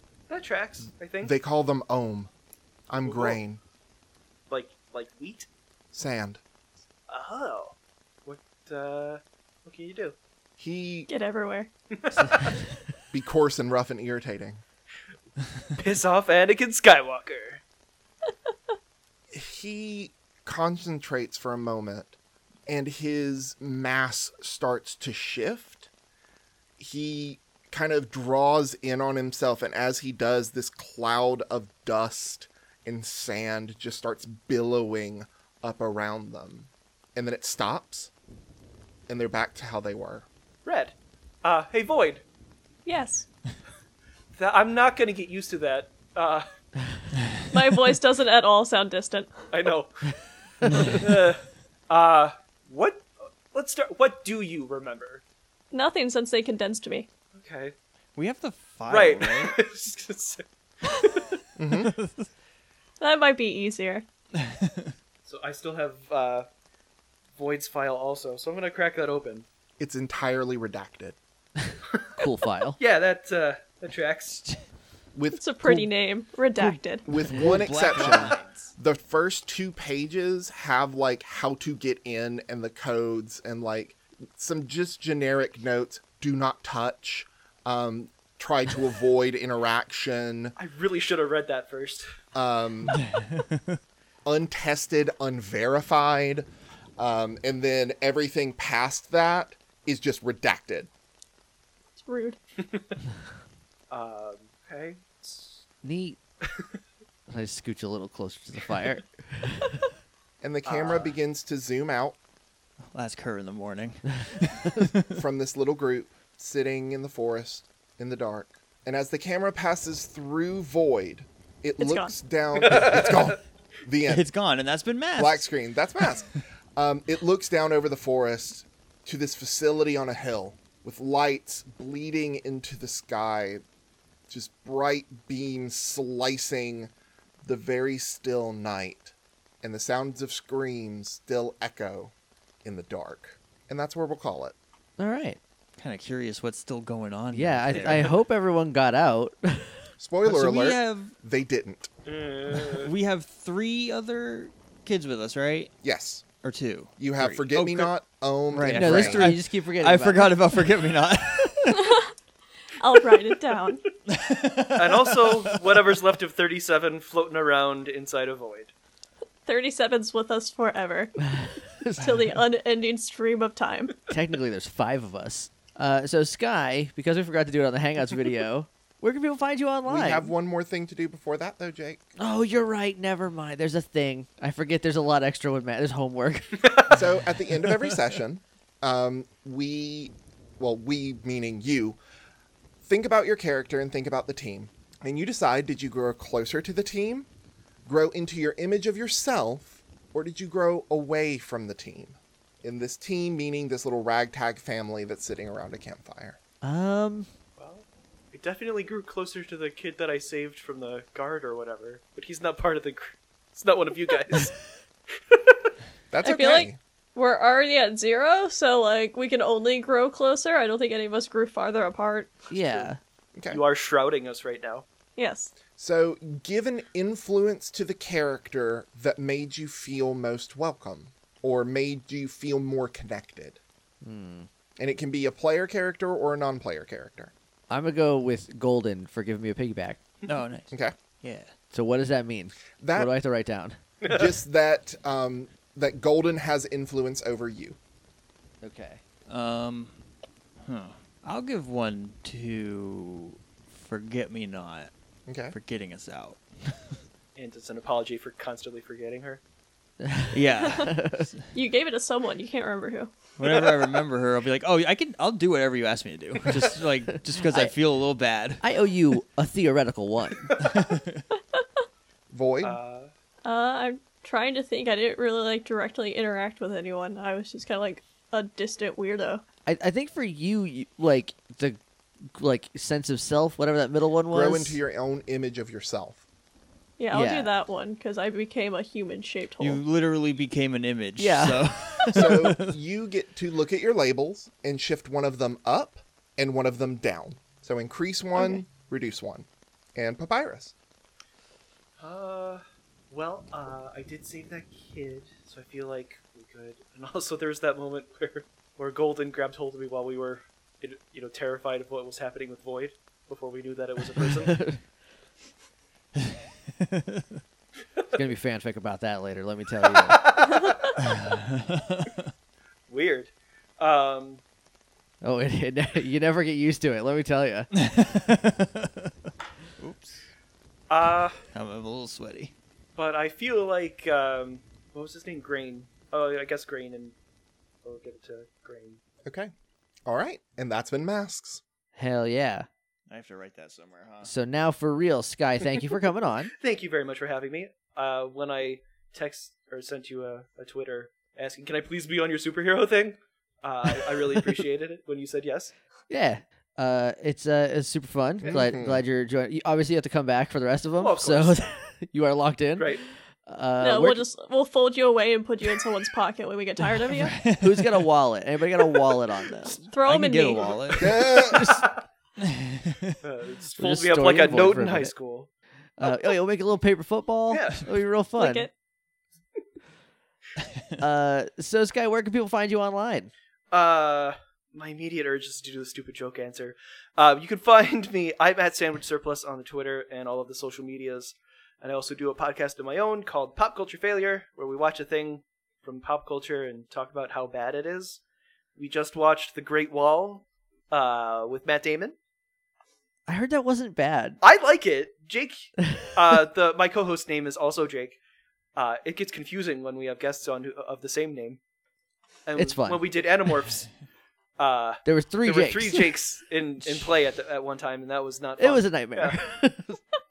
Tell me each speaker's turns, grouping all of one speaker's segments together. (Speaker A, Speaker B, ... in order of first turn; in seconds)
Speaker A: 0.3-1.3, 3.0-3.4, 4.5-5.5, 7.1-10.2, 12.0-12.6, 15.8-17.6, 40.6-42.2, 44.4-46.5, 49.5-49.9, 50.7-55.2, 57.4-57.7, 58.9-61.2, 65.3-66.5, 67.4-69.5, 72.8-74.5, 90.6-92.0, 102.6-102.9, 103.9-105.6, 110.7-111.1, 122.6-123.4, 152.1-152.9, 164.8-168.7, 186.6-187.0, 207.6-214.6, 215.1-215.7, 222.6-222.9, 223.5-224.9, 244.0-244.3, 257.4-259.4, 263.5-263.8, 272.6-273.1, 302.0-314.8, 319.9-321.0, 322.9-324.4, 330.9-331.4, 332.9-337.1, 337.8-339.0, 346.5-355.7, 361.0-361.6, 362.8-363.0, 371.1-371.9, 373.2-375.5, 376.0-376.3, 377.5-377.9, 383.7-398.2, 398.8-402.2, 404.4-408.2, 408.8-411.6, 412.5-413.9, 414.6-419.4
Speaker B: 1.2-2.3, 2.9-3.6, 5.9-6.4, 10.6-11.1, 13.1-14.6, 19.3-25.9, 26.8-38.1, 39.1-40.3, 61.6-61.9, 69.8-71.2, 75.2-75.9, 77.0-90.5, 92.3-93.0, 94.2-96.5, 97.0-100.9, 110.4-112.2, 115.2-124.3, 125.2-133.6, 134.3-136.9, 137.4-142.1, 142.6-144.6, 150.0-151.9, 155.8-156.2, 157.0-159.3, 179.9-182.1, 186.9-192.0, 192.8-197.3, 197.8-206.4, 216.1-216.8, 223.3-223.6, 225.8-233.6, 234.8-237.3, 242.8-243.1, 244.1-247.8, 255.3-255.5, 272.3-272.8, 284.3-286.2, 292.1-300.7, 339.2-339.5, 340.1-341.6, 358.4-359.0, 371.0-371.7
Speaker C: 11.1-11.7, 42.9-43.3, 47.5-49.5, 55.7-57.1, 63.0-64.0, 75.4-77.1, 102.0-102.4, 121.8-122.1, 161.7-162.1, 162.8-163.8, 169.5-171.2, 172.0-174.0, 216.2-222.5, 225.2-225.5, 261.5-263.2, 273.4-279.4, 287.0-289.8, 363.8-367.4, 369.9-371.1, 378.4-378.7
Speaker D: 50.6-51.0, 58.2-59.6, 61.8-62.3, 64.4-64.9, 77.3-78.7, 93.1-93.6, 112.9-115.2, 124.1-125.5, 145.8-148.2, 150.2-151.1, 152.6-155.7, 156.4-157.9, 158.5-162.0, 164.1-166.0, 240.3-240.7, 241.2-241.5, 249.3-250.0, 250.6-254.9, 255.5-256.9, 260.3-261.4, 263.4-268.6, 270.6-271.3, 289.6-292.7, 316.2-317.2, 321.0-322.3, 327.7-329.1, 329.8-330.3, 331.5-332.5, 343.1-344.3, 367.1-368.0, 369.9-371.5, 372.4-373.1
Speaker E: 71.6-72.8, 76.6-77.5, 105.8-106.2, 107.3-109.7, 145.0-145.4, 147.3-149.9, 158.7-160.5, 171.3-172.1, 174.1-180.3, 182.2-186.8, 206.6-207.3, 222.5-223.0, 234.0-234.5, 237.7-240.0, 241.7-243.8, 248.6-249.0, 260.0-261.3, 266.7-267.7, 268.6-270.5, 279.7-281.8, 282.3-284.8, 287.1-287.5, 291.2-292.3, 314.5-314.8, 318.1-320.2, 325.2-327.7, 342.0-342.7, 344.2-346.5, 356.1-364.2, 367.6-369.8, 373.8-375.1, 376.0-378.7, 381.0-383.3, 403.3-404.4, 412.6-413.0, 415.1-416.1, 416.8-417.1, 418.6-420.0